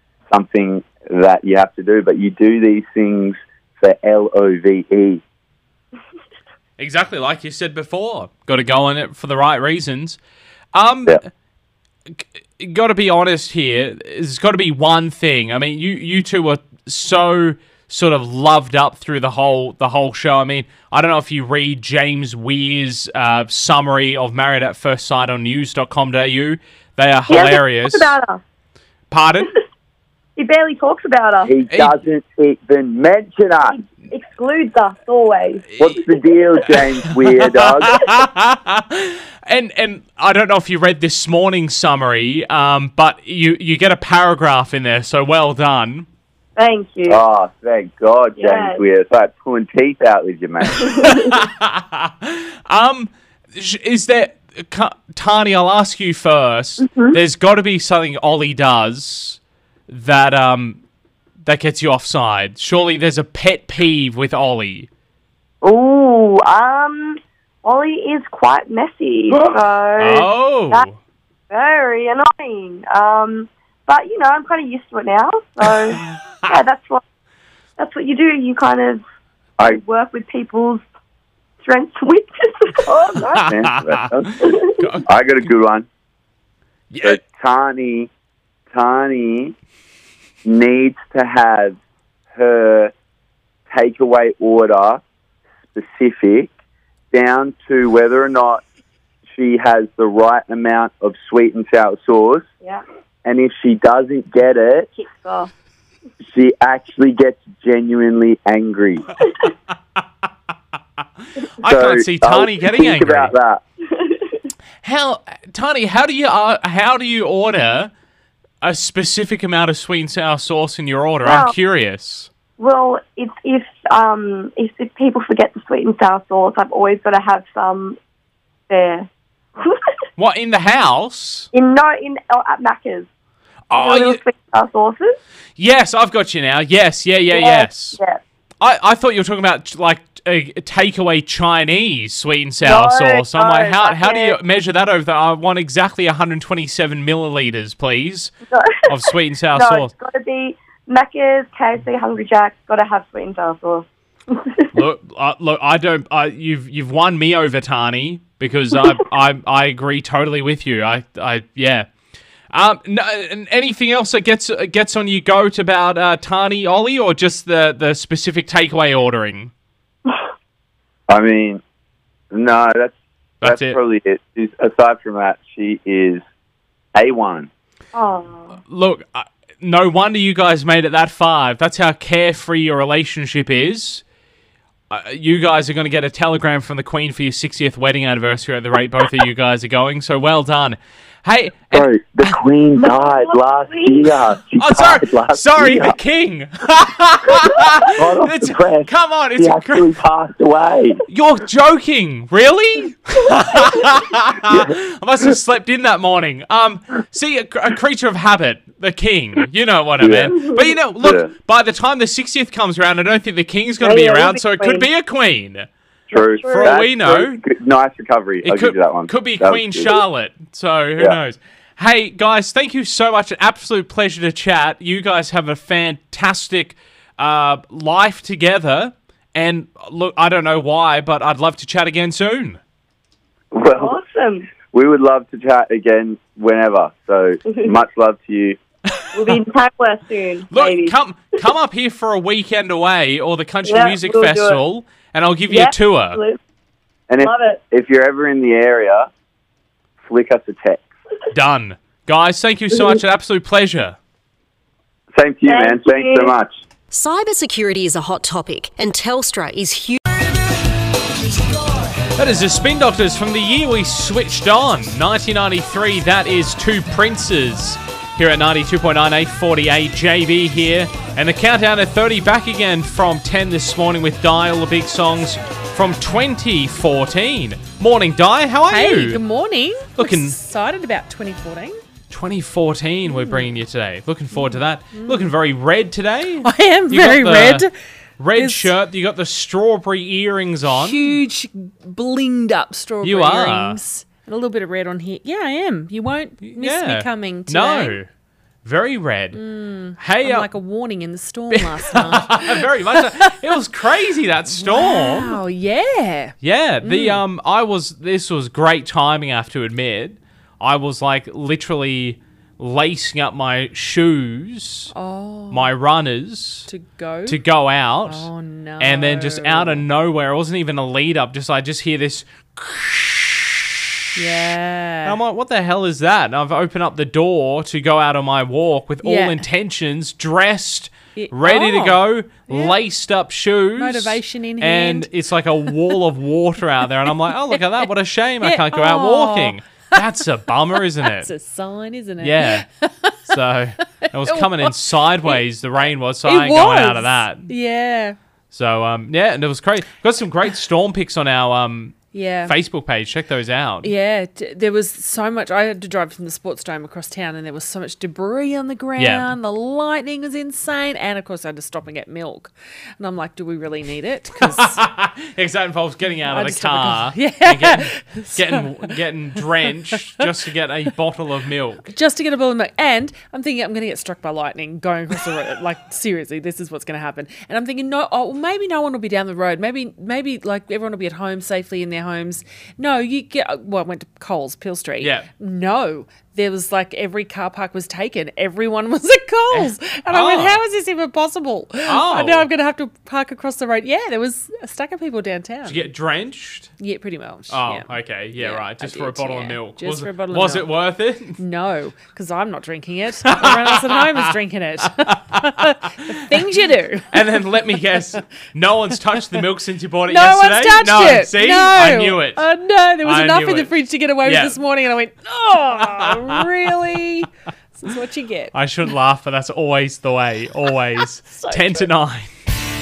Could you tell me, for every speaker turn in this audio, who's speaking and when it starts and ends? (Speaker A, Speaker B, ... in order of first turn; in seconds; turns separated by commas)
Speaker A: 0.3-5.2, Speaker B: 6.8-10.2, Speaker B: 10.7-11.3, Speaker B: 12.1-28.1, Speaker C: 27.3-28.4, Speaker B: 29.1-29.5, Speaker C: 30.4-31.5, Speaker A: 31.4-33.8, Speaker B: 31.7-32.0, Speaker C: 33.7-35.6, Speaker B: 35.7-36.0, Speaker A: 35.8-38.0, Speaker B: 36.7-46.1, Speaker C: 46.5-47.2, Speaker A: 47.1-50.9, Speaker C: 48.4-48.8, Speaker C: 50.8-51.2, Speaker B: 51.0-60.8, Speaker C: 56.9-57.2, Speaker B: 61.4-64.9, Speaker C: 65.6-70.9, Speaker B: 70.0-71.0, Speaker C: 71.5-77.0, Speaker B: 75.9-76.5, Speaker C: 77.8-79.0, Speaker C: 79.6-80.8, Speaker C: 81.6-83.5, Speaker B: 83.3-85.1, Speaker A: 83.5-84.4, Speaker C: 84.4-84.7, Speaker A: 85.0-85.8, Speaker B: 86.9-87.2, Speaker A: 87.0-88.1, Speaker A: 88.7-89.5, Speaker A: 90.4-91.8, Speaker A: 92.3-92.9, Speaker A: 93.7-95.0, Speaker A: 95.7-96.5, Speaker A: 97.1-98.6, Speaker A: 99.3-102.5, Speaker A: 103.2-104.9, Speaker C: 104.9-105.5, Speaker A: 106.2-109.1, Speaker B: 111.6-113.3, Speaker A: 111.6-113.6, Speaker C: 113.9-114.4, Speaker B: 114.8-117.9, Speaker B: 118.6-122.3, Speaker C: 121.2-121.5, Speaker C: 122.6-128.0, Speaker C: 128.7-129.1, Speaker B: 130.2-131.5, Speaker C: 131.5-133.1, Speaker B: 133.7-134.2, Speaker C: 133.7-135.2, Speaker B: 135.6-138.0, Speaker C: 137.3-138.2, Speaker B: 138.6-148.3, Speaker C: 142.6-144.4, Speaker C: 148.5-149.0, Speaker B: 148.9-149.9, Speaker C: 149.5-154.7, Speaker B: 154.7-161.9, Speaker B: 162.5-169.5, Speaker A: 171.1-171.6, Speaker A: 172.3-176.2, Speaker B: 173.4-173.8, Speaker A: 176.9-177.5, Speaker C: 177.9-178.6, Speaker B: 178.6-184.0, Speaker B: 184.9-192.3, Speaker A: 191.7-196.0, Speaker C: 192.8-194.2, Speaker B: 194.6-199.9, Speaker A: 197.9-201.0, Speaker B: 201.1-215.7, Speaker A: 210.0-210.4, Speaker A: 211.0-211.3, Speaker C: 213.8-214.9, Speaker C: 216.1-216.8, Speaker A: 216.1-219.9, Speaker B: 216.4-217.4, Speaker B: 218.4-232.6, Speaker A: 233.5-234.0, Speaker C: 233.7-234.5, Speaker A: 234.6-238.6, Speaker C: 239.1-240.9, Speaker B: 240.5-246.2, Speaker C: 243.6-244.6, Speaker C: 245.5-246.4, Speaker A: 247.1-249.1, Speaker C: 247.2-247.6, Speaker A: 250.0-250.8, Speaker B: 251.3-254.0, Speaker A: 255.1-256.5, Speaker C: 255.5-256.3, Speaker D: 256.9-260.0, Speaker B: 262.1-279.2, Speaker E: 278.7-281.7, Speaker B: 279.9-280.4, Speaker B: 282.1-287.7, Speaker E: 283.2-283.5, Speaker E: 284.3-285.3, Speaker E: 286.4-287.7, Speaker B: 288.2-291.1, Speaker E: 288.4-288.6, Speaker E: 290.7-298.0, Speaker B: 293.0-293.8, Speaker B: 296.4-298.1, Speaker B: 298.6-299.4, Speaker E: 299.3-303.3, Speaker B: 300.0-300.5, Speaker B: 301.5-305.4, Speaker E: 304.5-307.2, Speaker B: 306.4-314.9, Speaker E: 315.0-315.7, Speaker B: 315.5-316.7, Speaker E: 316.7-317.3, Speaker B: 317.2-318.3, Speaker E: 318.1-319.8, Speaker B: 318.8-323.5, Speaker E: 324.2-325.1, Speaker B: 325.0-341.3, Speaker E: 329.0-329.4, Speaker E: 331.2-332.0, Speaker E: 333.8-335.1, Speaker E: 338.4-339.5, Speaker E: 340.8-343.1, Speaker B: 342.2-342.6, Speaker B: 343.2-347.5, Speaker E: 344.2-345.4, Speaker E: 346.2-348.1, Speaker B: 348.5-353.9, Speaker E: 352.1-352.5, Speaker E: 353.9-362.5, Speaker B: 359.0-359.3, Speaker E: 363.0-364.7, Speaker B: 364.4-371.9, Speaker E: 366.3-368.9, Speaker E: 372.0-395.8, Speaker B: 385.0-385.3, Speaker B: 389.5-390.6, Speaker B: 391.8-392.5, Speaker B: 395.6-396.7, Speaker E: 396.8-397.9, Speaker B: 397.5-401.4, Speaker E: 398.4-400.7, Speaker E: 401.4-405.7, Speaker B: 403.3-404.3, Speaker B: 404.8-406.5, Speaker E: 406.3-407.9, Speaker B: 407.1-412.4, Speaker E: 410.2-417.2, Speaker B: 413.0-414.6, Speaker B: 415.6-416.6, Speaker E: 417.8-418.4, Speaker B: 418.5-422.3, Speaker E: 421.4-421.9